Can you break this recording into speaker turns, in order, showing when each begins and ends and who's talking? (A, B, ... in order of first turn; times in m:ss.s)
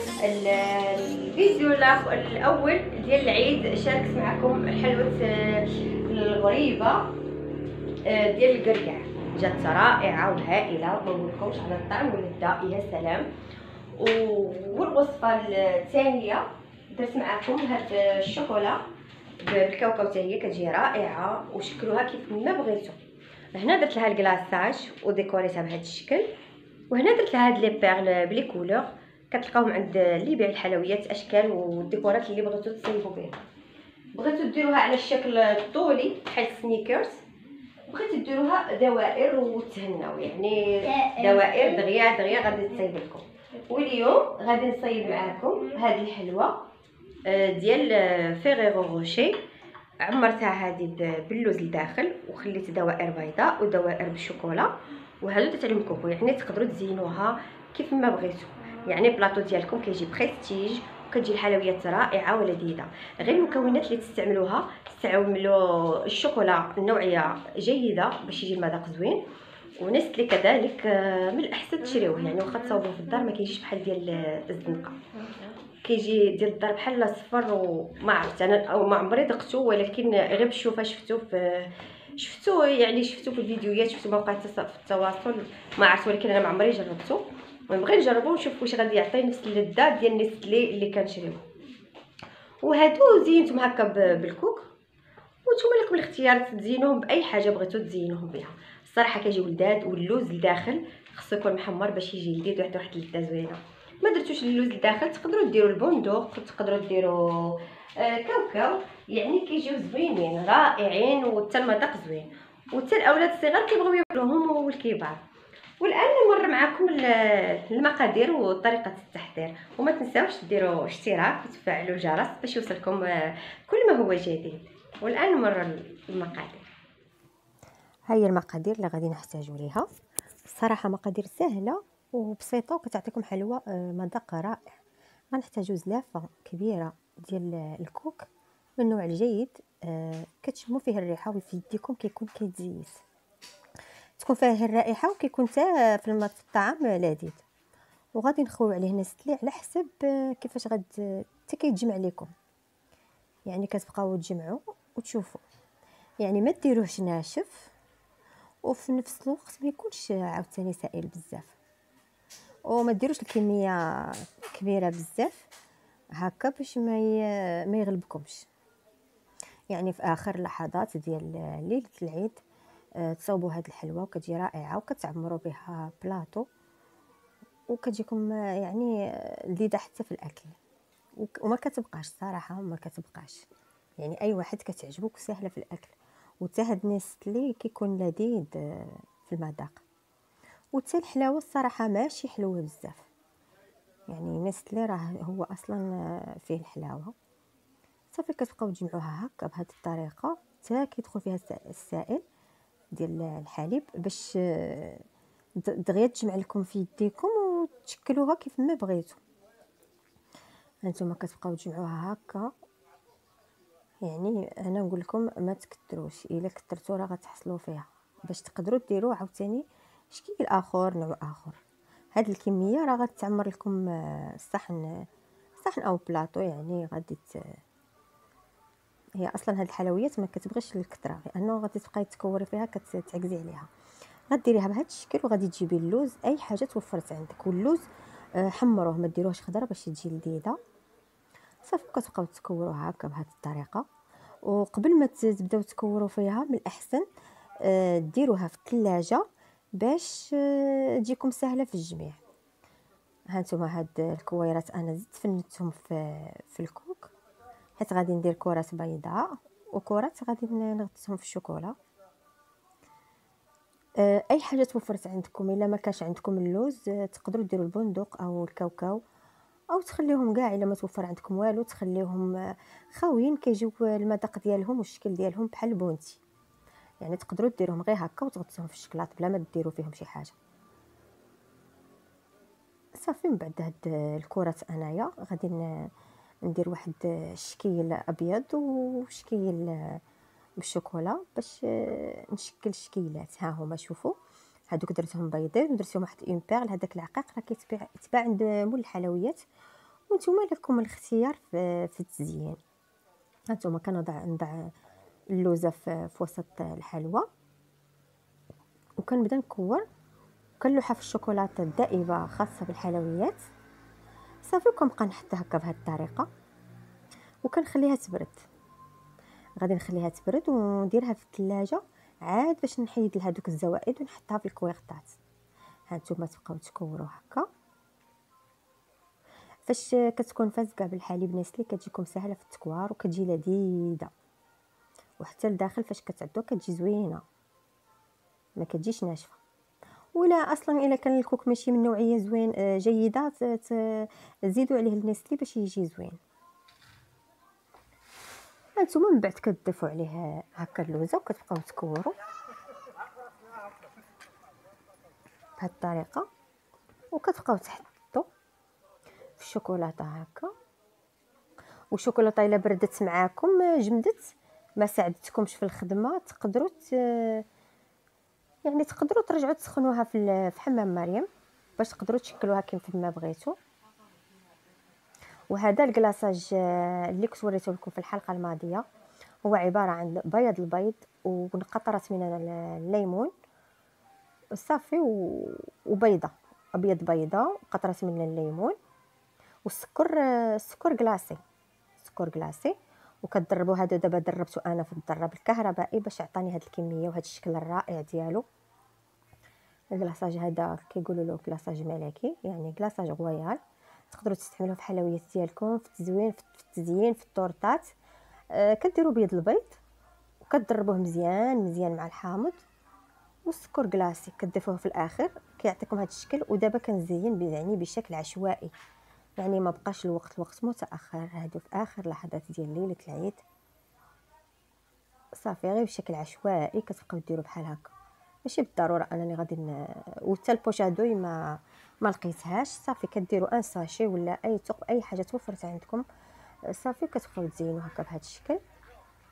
0:00.2-0:07.1 A
0:08.0-0:13.3 A
0:13.9-0:18.8 A
0:19.4-0:23.0 A
0:23.5-0:26.3 A
0:26.9-0:33.4 A
0:34.1-0:37.2 A
0:37.9-0:46.6 A
0:47.2-0:49.4 A
0:50.0-1:09.2 A
1:09.8-1:31.4 A
1:32.6-1:34.7 A
1:35.4-1:55.2 A
1:55.8-2:06.7 A
2:08.1-2:09.9 A
2:10.5-2:14.7 A
2:15.3-2:18.3 A
2:18.8-2:23.0 A
2:24.2-2:27.4 A
2:28.2-2:32.3 A
2:33.5-2:35.4 A
2:36.2-2:37.7 A
2:38.6-2:41.6 A
2:42.7-2:45.5 A
2:46.2-2:48.5 A
2:49.7-2:52.4 A
2:53.0-2:56.5 A
2:57.7-3:00.6 A
3:01.2-3:03.5 A
3:04.0-3:09.8 A
3:10.7-3:13.1 A
3:14.1-3:17.1 A
3:18.1-3:22.2 A
3:22.9-3:25.0 A
3:25.6-3:29.2 A
3:30.8-3:32.5 A
3:34.0-3:41.6 A
3:42.1-3:45.1 A
3:45.6-3:47.6 A
3:49.2-3:53.7 A
3:54.3-4:00.6 A
4:01.6-4:03.8 A
4:04.4-4:07.0 A
4:07.6-4:12.2 A
4:13.3-4:17.1 A
4:17.8-4:21.8 A
4:24.0-4:29.0 A
4:29.7-4:36.2 A
4:37.0-4:40.4 A
4:42.9-4:45.9 A
4:46.4-4:50.0 A
4:50.6-4:54.2 A
4:54.7-4:59.4 A
5:00.1-5:02.6 A
5:03.5-5:04.7 A
5:05.3-5:07.3 A
5:09.0-5:09.8 A
5:10.6-5:13.4 A
5:14.4-5:16.3 A
5:17.4-5:18.4 A
5:19.6-5:25.2 A
5:25.9-5:27.5 A
5:29.6-5:34.1 A
5:35.2-5:37.2 A
5:38.6-5:39.4 A
5:40.1-5:46.2 A
5:48.8-5:52.1 A
5:55.6-5:56.3 A
5:57.1-5:58.3 A
5:59.4-6:00.5 A
6:01.9-6:07.4 A
6:08.6-6:11.3 A
6:11.8-6:13.6 A
6:15.5-6:18.8 A
6:19.4-6:23.3 A
6:24.5-6:28.8 A
6:29.6-6:31.4 A
6:32.0-6:38.4 A
6:39.9-6:43.6 A
6:44.1-6:47.9 A
6:48.5-6:49.8 A
6:50.4-6:52.6 A
6:53.5-6:58.7 A
6:59.4-7:03.4 A
7:05.4-7:07.9 A
7:08.4-7:16.0 A
7:16.7-7:18.6 A